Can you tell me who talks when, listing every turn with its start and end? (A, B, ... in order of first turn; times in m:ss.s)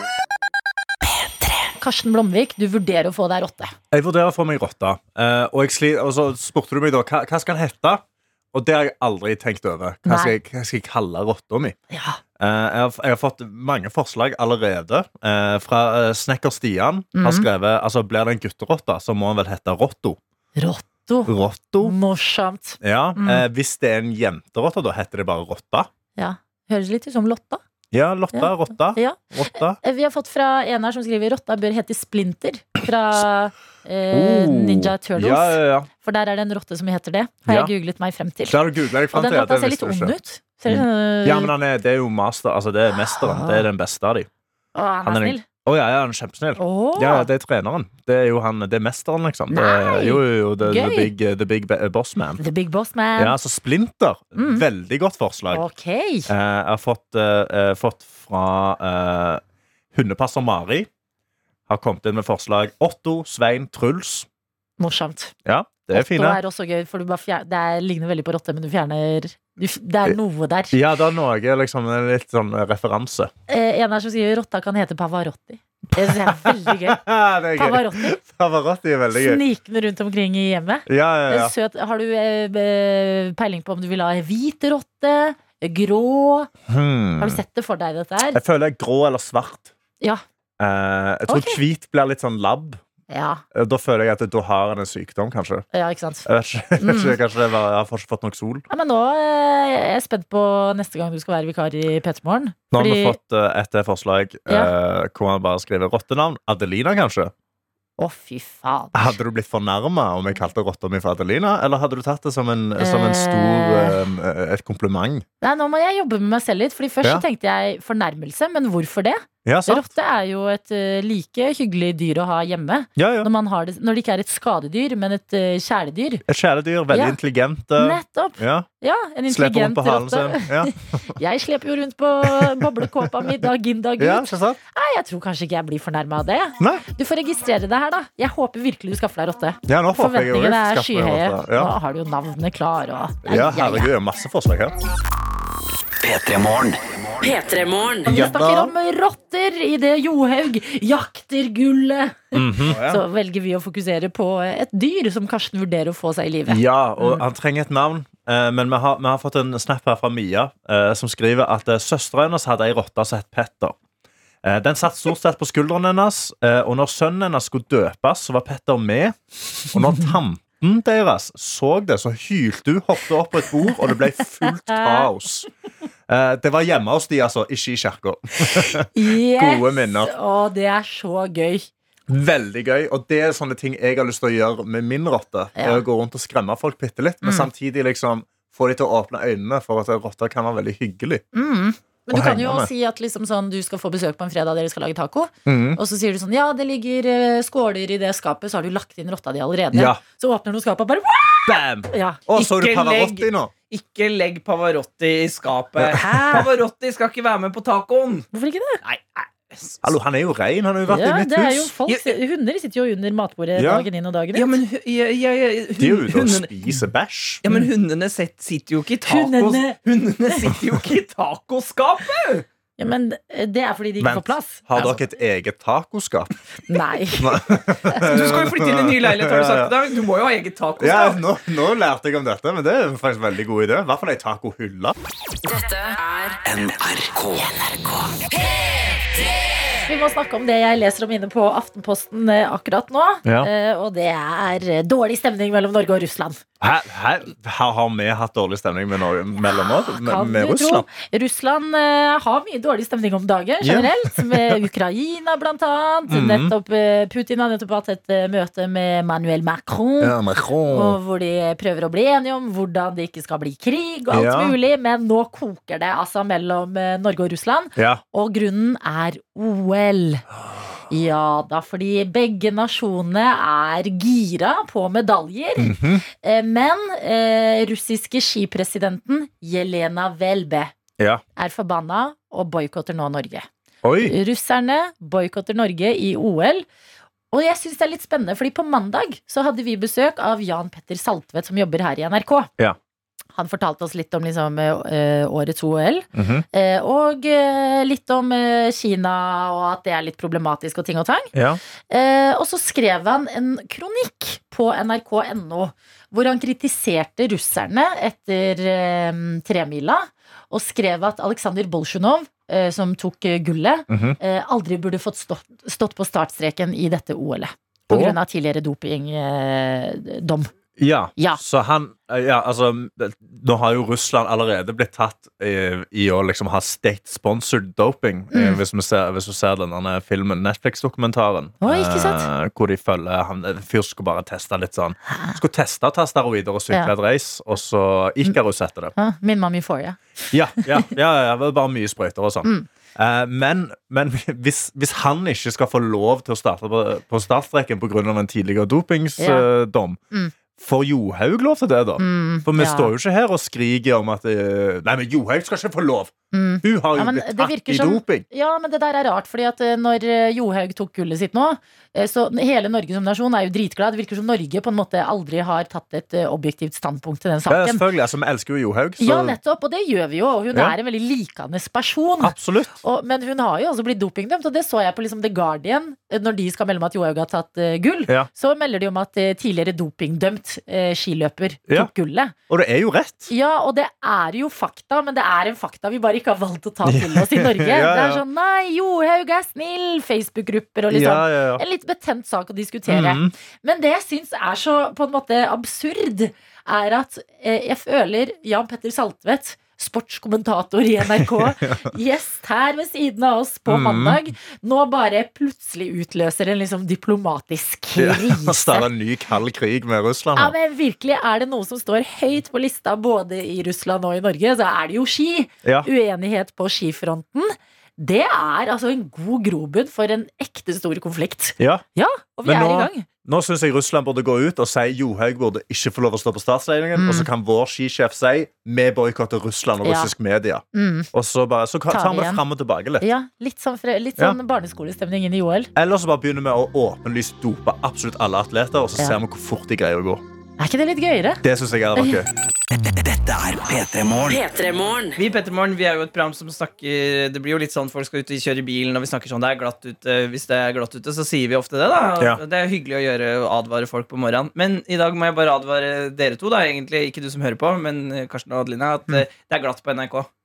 0:01.3-0:03.7 A
0:03.9-0:11.8 B
0:10.0-0:10.4 A
0:11.9-0:12.2 A
0:12.4-0:20.2 B
0:17.1-0:17.5 A
0:20.6-0:21.3 A
0:21.3-0:22.0 B
0:21.8-0:23.4 A
0:22.8-0:25.9 B
0:26.2-0:27.6 A
0:27.9-0:29.8 B
0:28.3-0:29.2 A
0:29.7-0:38.6 A
0:34.1-0:35.9 B
0:37.4-0:37.7 B
0:38.4-0:40.2 B
0:39.1-0:41.5 A
0:40.7-0:44.3 B
0:43.2-0:43.7 A
0:44.7-0:45.4 A
0:45.0-0:52.4 B
0:46.6-0:47.3 A
0:49.5-0:51.1 A
0:52.4-0:53.4 A
0:53.2-0:55.6 B
0:54.4-0:54.6 A
0:55.5-0:56.3 A
0:56.3-0:59.4 B
0:59.9-1:00.9 B
1:01.7-1:04.3 B
1:04.8-1:05.3 A
1:05.4-1:06.4 B
1:05.9-1:10.7 A
1:10.7-1:13.3 B
1:13.5-1:17.0 A
1:16.0-1:19.4 B
1:17.6-1:18.2 A
1:19.1-1:26.5 A
1:20.9-1:21.5 B
1:26.7-1:27.4 B
1:27.2-1:28.4 A
1:28.3-1:29.7 B
1:30.6-1:32.8 B
1:31.3-1:31.6 A
1:33.1-1:33.4 A
1:33.5-1:35.7 B
1:35.7-1:36.3 A
1:36.2-1:38.6 B
1:36.8-1:37.2 A
1:38.7-1:43.2 A
1:42.7-1:47.3 B
1:48.0-1:49.2 A
1:48.9-1:55.2 B
1:52.8-1:54.0 A
1:55.4-2:06.2 A
1:59.4-1:59.9 B
2:03.0-2:03.3 B
2:06.3-2:08.7 B
2:06.9-2:07.2 A
2:07.8-2:23.9 A
2:09.3-2:10.7 B
2:12.2-2:13.3 B
2:14.0-2:14.6 B
2:16.6-2:16.8 B
2:19.7-2:21.7 B
2:23.2-2:24.8 B
2:26.0-2:27.3 C
2:27.2-2:28.1 D
2:28.1-2:28.7 B
2:28.1-2:37.2 A
2:32.3-2:33.0 B
2:36.5-2:43.8 B
2:44.4-2:49.2 B
2:49.7-2:55.5 B
2:54.4-2:55.1 A
2:56.1-3:00.1 B
2:58.4-3:01.7 A
3:02.1-3:11.2 B
3:05.6-3:05.8 A
3:07.2-3:07.5 A
3:11.3-3:22.2 A
3:12.1-3:12.7 B
3:15.4-3:15.8 B
3:19.7-3:20.0 B
3:21.4-3:23.5 B
3:22.4-3:28.3 E
3:25.8-3:26.5 B
3:25.9-3:26.5 A
3:28.3-3:28.8 A
3:28.8-3:29.9 E
3:29.8-3:31.7 B
3:30.9-3:34.6 A
3:31.9-3:32.1 E
3:33.6-3:33.9 B
3:34.4-3:36.5 E
3:35.8-3:37.4 B
3:37.4-3:42.4 E
3:39.1-3:39.8 A
3:42.8-3:45.0 A
3:44.0-3:46.3 B
3:46.7-3:48.1 A
3:47.2-3:49.8 B
3:48.1-3:51.2 E
3:50.8-3:55.0 B
3:55.4-3:56.4 D
3:56.4-3:58.2 C
3:59.9-4:06.4 A
4:03.2-4:03.5 B
4:06.6-4:10.9 B
4:09.4-4:20.2 A
4:13.6-4:14.6 B
4:16.1-4:16.5 B
4:20.0-4:21.0 B
4:20.7-4:30.2 A
4:24.1-4:24.6 B
4:27.8-4:28.0 B
4:30.9-4:40.7 A
4:35.6-4:36.0 B
4:41.4-4:43.5 A
4:43.8-4:44.1 B
4:44.0-4:46.7 A
4:47.3-4:52.5 A
4:53.4-5:01.3 A
4:56.1-4:56.4 B
5:01.3-5:01.6 B
5:01.9-5:20.5 A
5:13.9-5:14.2 B
5:17.9-5:18.2 B
5:20.8-5:39.0 B
5:28.3-5:28.6 A
5:31.6-5:32.3 A
5:39.0-5:40.9 A
5:40.3-5:50.0 B
5:49.2-5:49.4 A
5:50.6-5:58.2 B
5:52.0-5:52.9 A
5:56.3-6:07.8 A
6:07.5-6:09.4 B
6:09.0-6:22.3 A
6:12.2-6:12.8 B
6:22.5-6:23.3 B
6:23.3-6:48.9 A
6:26.8-6:28.2 B
6:30.9-6:31.6 B
6:32.9-6:33.3 B
6:41.2-6:41.8 B
6:43.7-6:44.2 B
6:48.0-6:50.6 B
6:50.4-7:03.1 A
6:55.6-6:55.9 B
7:01.6-7:01.8 B
7:02.4-7:13.1 B
7:07.0-7:07.3 A
7:09.8-7:10.1 A
7:10.7-7:11.1 A
7:11.9-7:12.4 A
7:13.0-7:15.7 A
7:15.7-7:20.2 B
7:20.6-7:21.4 A
7:21.4-7:22.3 B
7:22.7-7:24.4 C
7:24.3-7:25.2 D
7:25.2-7:40.3 E